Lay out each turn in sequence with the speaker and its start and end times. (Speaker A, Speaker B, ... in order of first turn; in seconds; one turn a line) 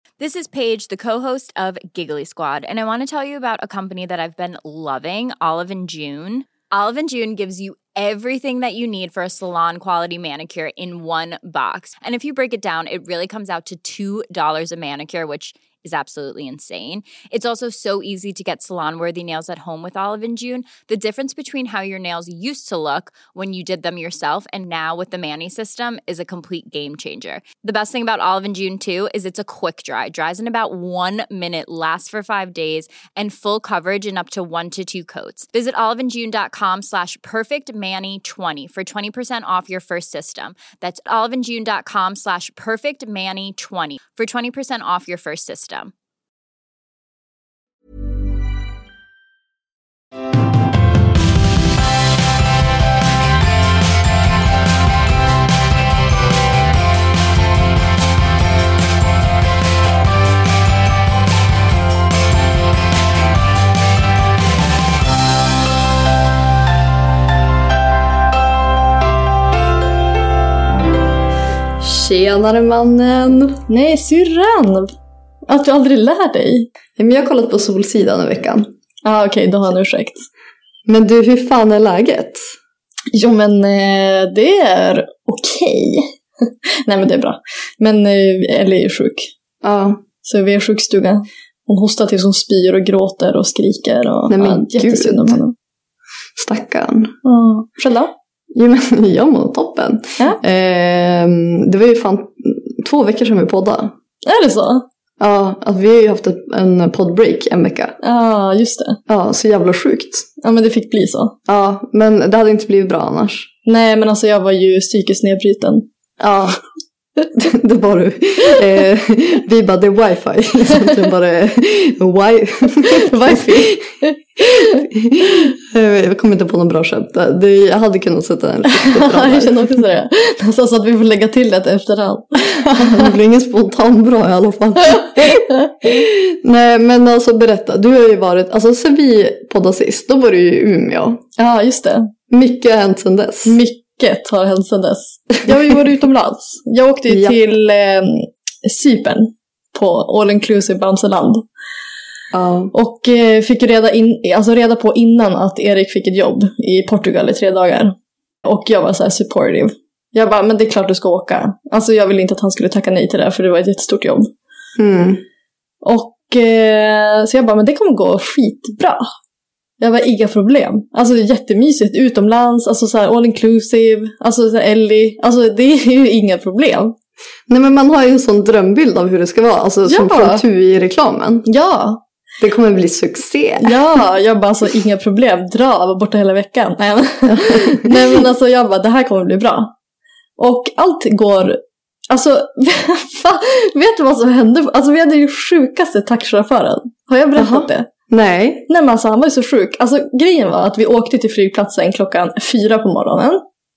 Speaker A: 0.2-45.9
Speaker B: 71.8-73.6
Speaker C: 73.7-74.9
Speaker C: 75.5-76.7
Speaker B: 77.0-78.7
Speaker C: 79.0-80.2
Speaker B: 80.9-82.5
Speaker C: 83.1-86.1
Speaker C: 86.9-89.3
Speaker B: 89.6-90.0
Speaker C: 90.2-95.5
Speaker B: 94.3-95.4
Speaker B: 96.4-97.1
Speaker C: 97.2-98.1
Speaker B: 98.5-103.9
Speaker C: 104.2-104.8
Speaker B: 105.2-108.0
Speaker C: 108.0-109.0
Speaker B: 109.1-110.3
Speaker C: 110.4-111.3
Speaker B: 111.5-113.5
Speaker C: 113.7-115.8
Speaker B: 116.2-116.6
Speaker B: 117.4-123.8
Speaker C: 122.8-124.8
Speaker B: 124.4-129.7
Speaker C: 128.7-133.1
Speaker B: 132.7-141.2
Speaker C: 141.4-142.1
Speaker B: 142.3-143.6
Speaker C: 143.5-151.5
Speaker B: 145.5-145.7
Speaker B: 147.1-147.4
Speaker B: 152.3-152.7
Speaker C: 152.7-164.3
Speaker B: 164.8-165.2
Speaker C: 165.8-169.1
Speaker C: 169.8-176.9
Speaker B: 177.5-181.5
Speaker C: 179.9-180.4
Speaker C: 181.5-182.0
Speaker B: 182.4-183.8
Speaker C: 183.6-189.7
Speaker B: 187.3-188.0
Speaker C: 190.4-191.6
Speaker C: 192.1-197.9
Speaker B: 197.4-198.7
Speaker C: 198.7-203.4